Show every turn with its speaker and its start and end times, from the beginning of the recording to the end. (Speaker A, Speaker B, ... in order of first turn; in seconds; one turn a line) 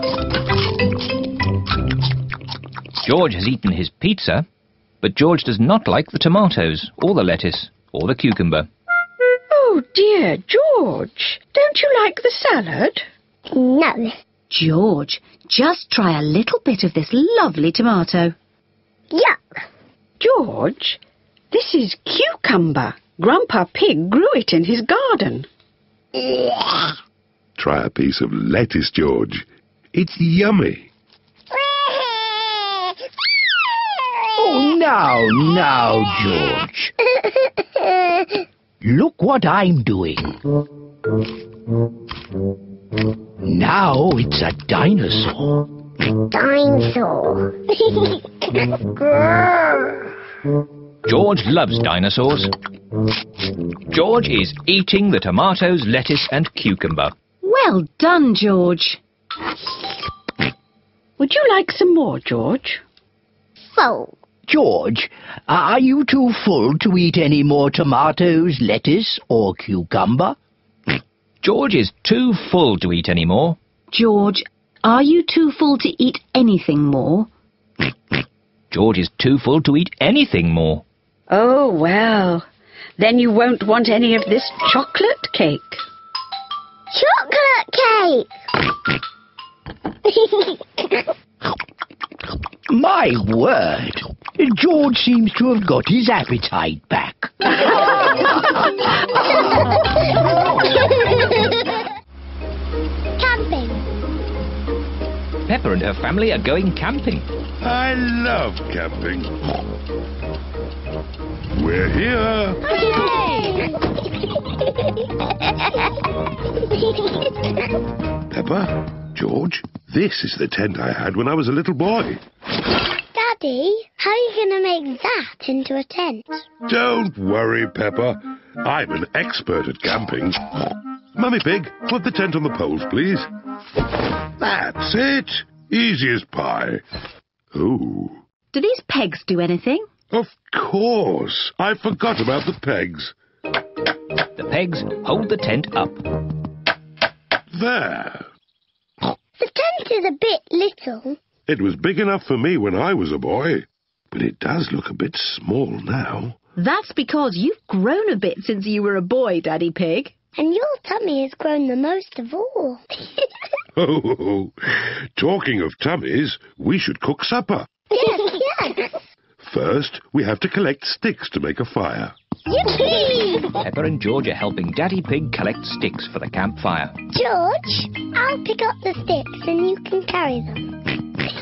Speaker A: 3.0-4.4
Speaker A: 5.0-8.7
Speaker B: 9.5-13.1
Speaker C: 13.5-14.2
Speaker D: 14.5-18.3
Speaker C: 19.1-19.6
Speaker B: 20.2-21.0
Speaker B: 21.5-25.5
Speaker C: 26.3-26.7
Speaker E: 27.6-30.9
Speaker F: 34.3-36.9
Speaker C: 37.2-38.4
Speaker F: 38.8-40.4
Speaker F: 43.4-45.7
Speaker C: 46.3-47.5
Speaker A: 51.0-52.5
Speaker A: 53.9-57.1
Speaker D: 57.4-59.0
Speaker B: 61.2-62.8
Speaker C: 63.6-64.1
Speaker F: 64.5-70.3
Speaker A: 71.4-73.6
Speaker D: 73.9-77.3
Speaker A: 78.7-80.8
Speaker B: 81.3-82.5
Speaker B: 83.0-85.8
Speaker C: 86.9-88.3
Speaker C: 90.2-90.5
Speaker F: 92.7-97.5
Speaker C: 103.2-103.8
Speaker A: 105.5-107.3
Speaker E: 107.6-109.3
Speaker E: 111.5-112.7
Speaker D: 112.7-113.7
Speaker C: 112.7-113.8
Speaker E: 118.3-122.2
Speaker C: 123.1-126.4
Speaker E: 126.7-130.4
Speaker E: 131.1-133.3
Speaker E: 134.4-136.8
Speaker E: 137.5-138.2
Speaker D: 138.5-139.9
Speaker E: 140.1-143.1
Speaker A: 144.3-146.0
Speaker E: 147.5-148.3
Speaker C: 149.4-151.2
Speaker E: 151.5-156.4
Speaker D: 156.6-160.1
Speaker C: 160.3-162.8
Speaker E: 163.7-167.7
Speaker C: 167.9-169.0
Speaker E: 169.4-172.1
Speaker C: 172.5-173.5
Speaker A: 173.5-176.9
Speaker C: 177.1-180.7